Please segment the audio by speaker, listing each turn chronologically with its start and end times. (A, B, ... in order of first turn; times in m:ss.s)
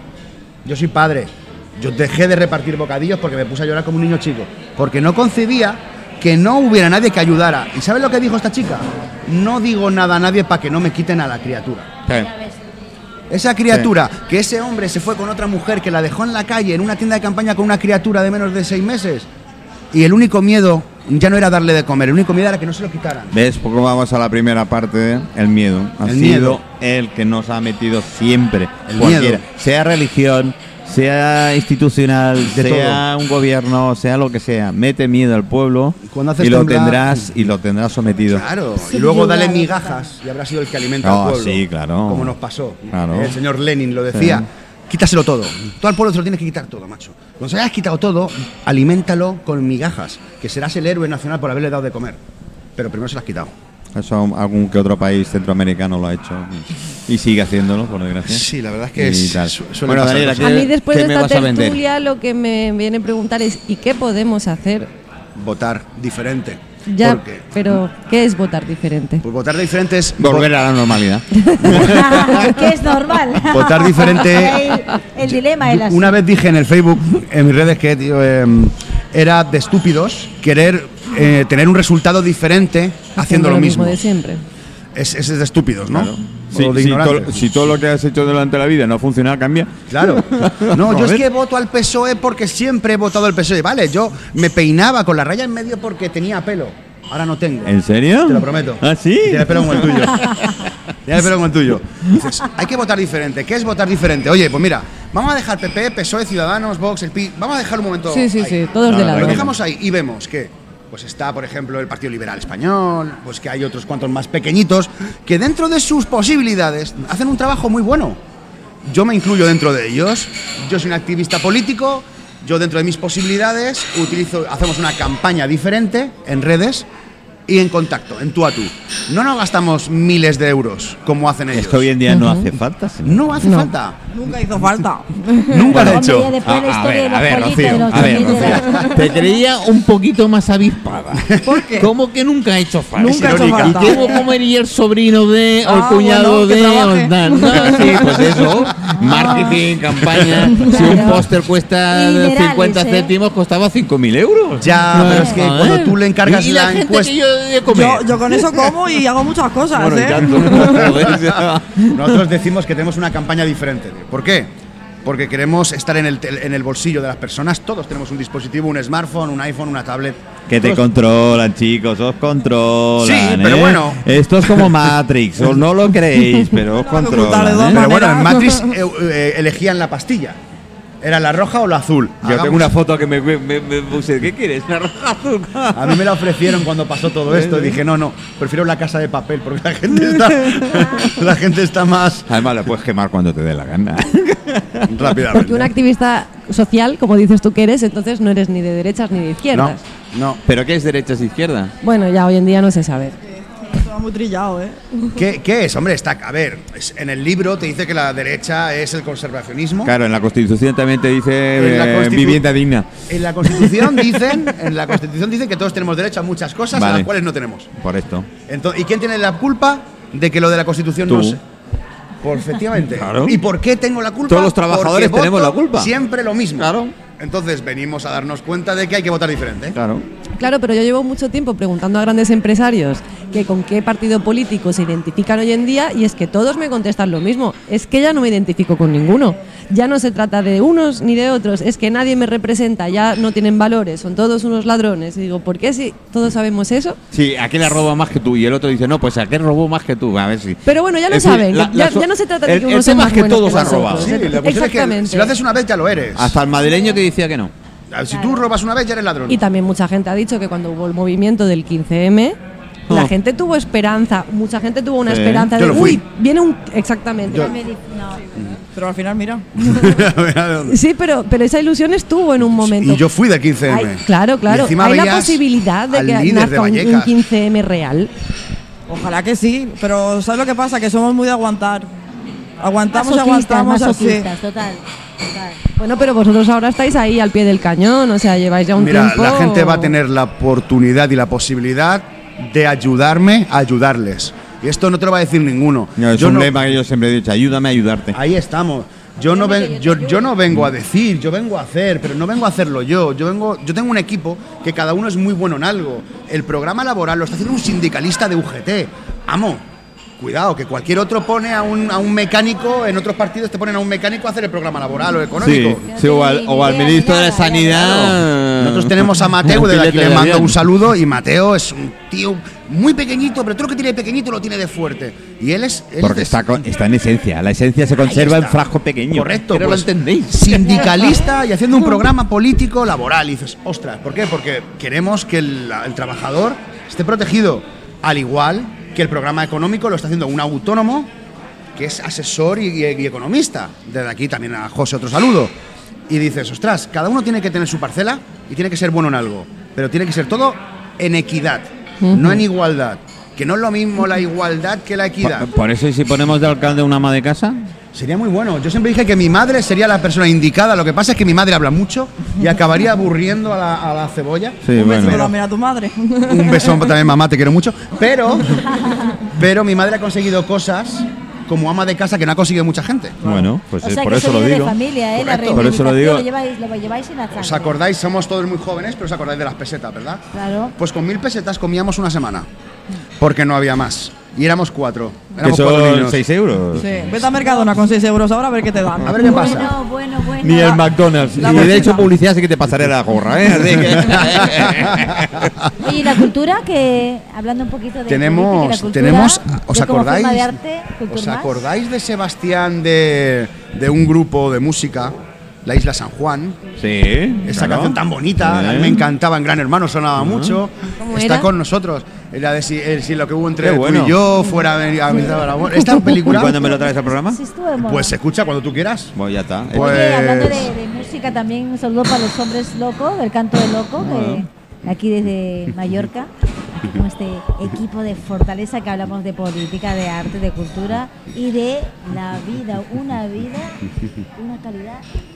0:00.6-0:11.9 A
0:13.3-0:19.3 A
0:19.9-0:23.4 A
0:23.3-0:38.4 B
0:26.0-0:26.6 A
0:28.9-0:29.4 A
0:32.5-0:33.0 A
0:36.0-0:37.2 A
0:38.3-0:52.2 A
0:38.8-0:40.0 C
0:41.0-0:42.3 B
0:42.9-0:43.4 B
0:44.1-0:44.4 B
0:52.8-0:53.5 A
0:53.9-1:01.8 B
0:58.2-1:00.6 A
1:00.4-1:04.9 D
1:05.4-1:07.4 A
1:06.9-1:09.2 D
1:09.2-1:10.5 A
1:10.2-1:12.5 B
1:11.4-1:11.8 D
1:11.8-1:16.2 C
1:13.5-1:24.0 A
1:23.2-1:24.4 D
1:24.9-1:27.4 A
1:25.9-1:31.2 B
1:29.9-1:37.7 A
1:37.6-1:40.6 B
1:38.2-1:40.3 A
1:41.0-1:58.2 A
1:48.1-1:49.4 D
1:48.8-1:49.5 B
1:58.8-2:06.9 A
2:07.5-2:11.9 A
2:11.5-2:13.3 B
2:12.1-2:12.4 D
2:13.0-2:14.0 A
2:13.4-2:13.7 D
2:14.1-2:15.7 E
2:15.5-2:16.3 A
2:15.7-2:38.7 B
2:15.7-2:19.1 C
2:21.4-2:21.9 E
2:23.0-2:24.2 E
2:23.1-2:24.0 A
2:25.6-2:28.5 E
2:29.1-2:29.6 C
2:30.5-2:31.1 E
2:30.6-2:31.2 C
2:31.9-2:33.1 C
2:34.6-2:37.1 A
2:37.7-2:40.9 E
2:39.7-2:42.2 B
2:40.5-2:44.5 A
2:45.0-2:50.8 A
2:50.5-2:57.8 B
2:53.0-2:54.7 A
2:56.8-2:58.7 E
2:57.7-3:00.4 A
3:01.0-3:02.7 A
3:02.2-3:06.0 B
3:05.7-3:12.3 A
3:07.2-3:07.8 B
3:10.5-3:10.9 B
3:12.3-3:15.2 B
3:14.8-3:15.7 A
3:15.3-3:19.8 D
3:19.5-3:20.4 A
3:20.4-3:21.7 B
3:21.8-3:23.2 D
3:23.4-3:25.0 E
3:25.2-3:29.9 A
3:29.8-3:32.9 B
3:31.6-3:32.4 A
3:33.1-3:37.7 A
3:33.4-3:34.4 B
3:36.7-3:37.1 B
3:37.7-3:38.3 B
3:38.5-3:41.4 A
3:41.1-3:41.4 B
3:42.2-3:49.8 A
3:42.9-3:43.4 B
3:44.3-3:45.9 B
3:46.6-3:46.9 B
3:49.7-3:50.0 B
3:50.4-4:07.0 D
4:07.1-4:14.1 B
4:10.6-4:15.3 D
4:13.6-4:16.4 A
4:16.1-4:17.5 B
4:16.6-4:17.0 C
4:17.9-4:19.4 A
4:19.3-4:22.4 D
4:22.9-4:27.6 D
4:25.0-4:25.5 B
4:25.6-4:26.0 A
4:27.3-4:27.5 A
4:27.3-4:28.2 C
4:28.7-4:29.9 E
4:29.6-4:30.8 A
4:30.7-4:33.0 D
4:32.5-4:37.2 A
4:33.7-4:38.1 D
4:38.9-4:41.9 E
4:42.6-4:44.3 E
4:42.9-4:45.6 C
4:45.7-4:49.9 D
4:48.8-4:56.7 A
4:56.0-4:58.2 B
4:58.1-5:09.6 A
4:59.2-5:00.3 C
5:10.2-5:15.8 A
5:15.4-5:20.7 B
5:15.8-5:18.1 C
5:17.8-5:26.4 A
5:26.0-5:31.1 B
5:28.0-5:41.1 A
5:41.7-5:45.5 A
5:46.1-5:55.5 A
5:52.0-5:52.4 D
5:55.2-5:57.6 B
5:57.9-6:05.3 A
6:04.6-6:05.2 B
6:04.7-6:06.9 E
6:06.2-6:13.2 A
6:13.2-6:16.2 B
6:13.8-6:17.8 C
6:15.2-6:15.6 A
6:17.3-6:20.2 A
6:20.3-6:20.7 C
6:20.8-6:22.5 A
6:23.2-6:26.2 A
6:25.4-6:27.3 B
6:26.8-6:29.7 E
6:29.0-6:29.8 A
6:29.2-6:30.8 C
6:30.4-6:35.5 B
6:31.4-6:32.1 E
6:33.9-6:35.7 A
6:35.8-6:41.6 C
6:38.1-6:40.5 A
6:41.1-6:46.6 A
6:46.8-6:49.0 B
6:47.5-6:56.8 A
6:50.2-6:50.6 B
6:51.0-6:51.5 D
6:53.6-6:54.2 B
6:56.1-6:57.4 B
6:56.4-6:58.1 C
6:57.8-6:59.1 A
6:59.1-7:00.2 B
6:59.7-7:00.7 A
6:59.7-7:13.8 C
7:04.0-7:04.4 B
7:14.4-7:15.0 C